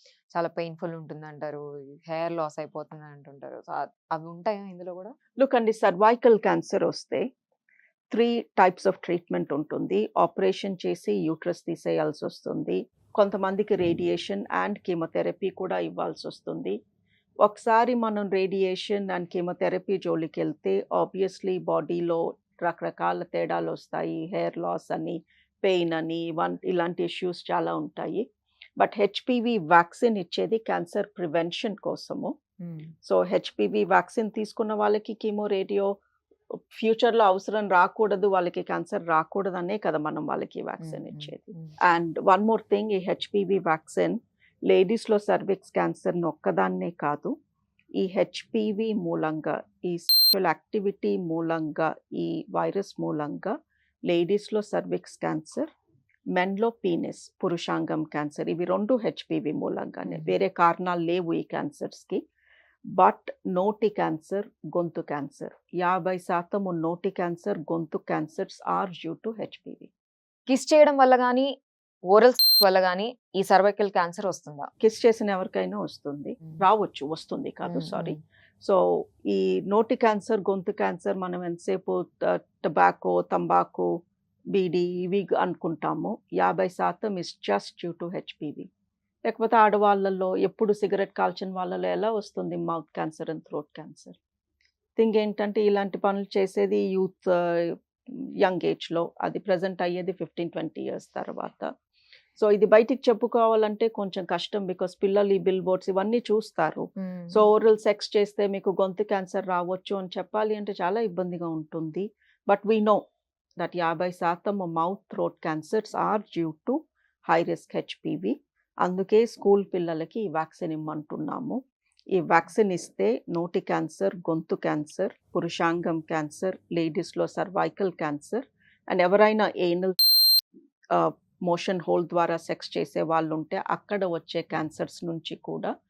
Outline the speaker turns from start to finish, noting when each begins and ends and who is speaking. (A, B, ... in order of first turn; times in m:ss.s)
0:00.3-0:05.2 A
0:05.4-0:07.3 B
0:08.1-0:16.8 B
0:17.4-0:28.2 B
0:28.8-0:32.3 B
0:32.6-0:32.9 A
0:33.0-0:35.9 B
0:36.7-0:47.3 B
0:40.8-0:41.8 A
0:48.0-0:53.6 B
0:54.1-0:55.7 B
0:56.3-1:02.2 B
1:00.1-1:00.3 A
1:02.9-1:09.9 B
1:10.5-1:11.6 A
1:12.1-1:14.7 A
1:14.8-1:23.9 B
1:17.6-1:18.2 A
1:24.5-1:28.7 B
1:29.2-1:34.2 B
1:35.0-1:41.7 B
1:42.4-1:53.0 B
1:47.0-1:47.5 A
1:53.6-2:01.6 B
2:02.1-2:10.0 B
2:10.9-2:15.7 B